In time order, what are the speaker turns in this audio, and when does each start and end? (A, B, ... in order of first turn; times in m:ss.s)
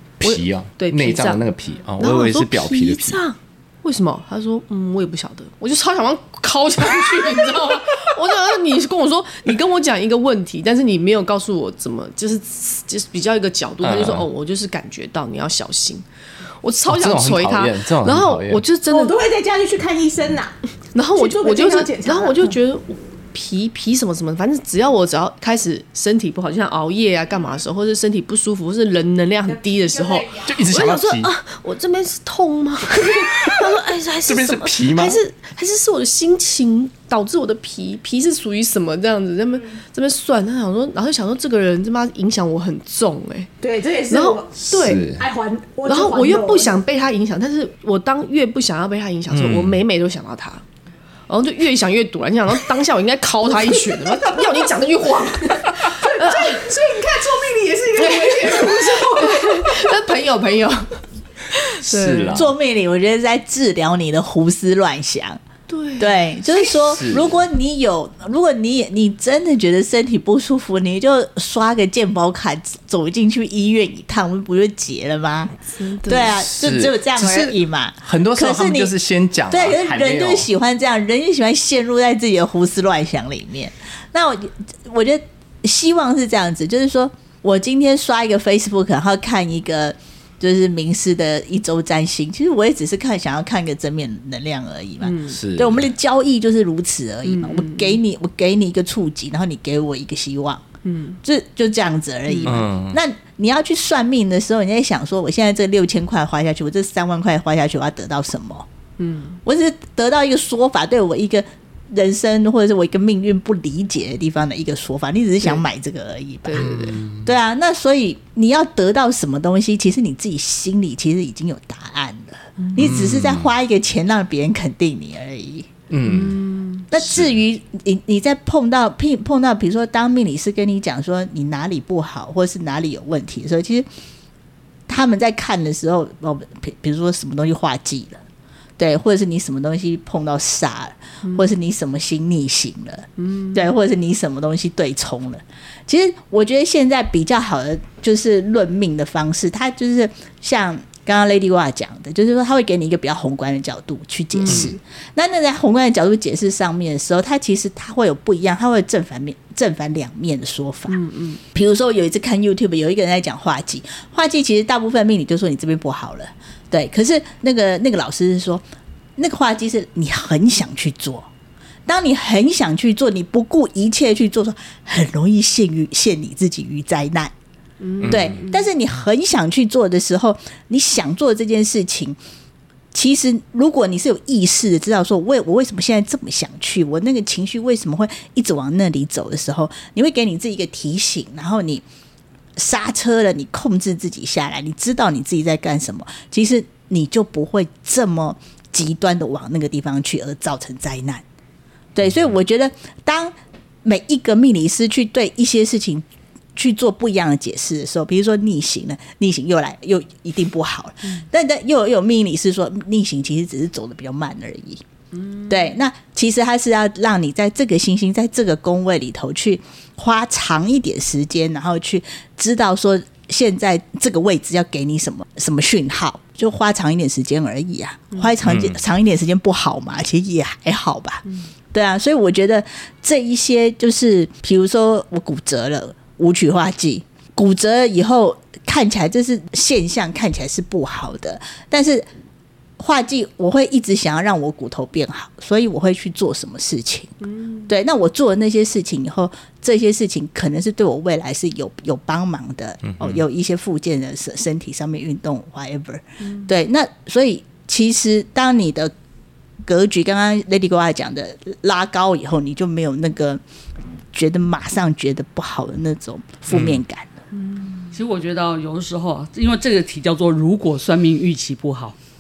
0:00.2-0:03.2 A
0:00.2-0:01.4 B
0:02.0-0:16.0 B
0:13.8-0:14.3 A
0:16.6-0:19.1 B
0:16.8-0:18.6 A
0:18.9-0:20.6 C
0:20.9-0:43.5 B
0:21.1-0:22.6 C
0:30.4-0:31.3 A
0:34.2-0:35.2 A
0:43.6-0:46.7 C
0:44.1-0:45.1 B
0:44.6-0:45.2 A
0:45.9-0:50.6 B
0:49.3-0:49.8 A
0:51.3-0:56.6 B
0:56.0-0:59.9 C
0:58.0-1:01.0 B
1:01.5-1:02.4 B
1:01.8-1:02.5 A
1:02.3-1:05.4 D
1:05.7-1:06.3 B
1:06.0-1:15.5 D
1:06.9-1:07.4 A
1:15.8-1:16.4 B
1:16.1-1:18.9 D
1:16.6-1:20.5 A
1:19.5-1:48.7 D
1:35.0-1:35.4 B
1:35.4-1:35.9 A
1:37.2-1:38.0 B
1:40.8-1:41.2 B
1:42.3-1:42.6 B
1:42.4-1:43.0 A
1:49.0-1:49.4 B
1:49.4-2:05.7 D
1:56.4-1:57.0 B
1:56.6-1:57.3 A
2:02.6-2:03.0 B
2:02.8-2:03.5 A
2:05.9-2:06.4 A
2:06.0-2:06.9 B
2:06.9-2:13.9 D
2:06.9-2:07.4 A
2:14.9-2:18.2 D
2:18.8-2:48.6 D
2:23.2-2:23.7 B
2:34.4-2:34.7 B
2:34.5-2:34.7 A
2:40.9-2:41.4 B
2:49.2-2:51.3 D
2:51.9-2:57.3 D
2:57.8-2:58.6 B
2:58.0-2:58.3 A
2:58.0-3:02.2 D
3:02.9-3:11.8 D
3:12.6-3:21.2 D
3:22.0-3:23.3 D
3:23.8-3:34.8 D
3:35.1-3:35.6 B
3:35.5-4:02.1 D
3:48.4-3:48.8 A
4:02.8-4:07.1 D
4:07.2-4:07.7 B
4:07.7-4:18.9 D
4:12.8-4:13.2 A
4:16.2-4:16.5 B
4:19.6-4:23.4 D
4:24.1-4:27.1 D
4:26.5-4:26.8 A
4:27.4-4:27.9 B
4:27.9-4:32.0 E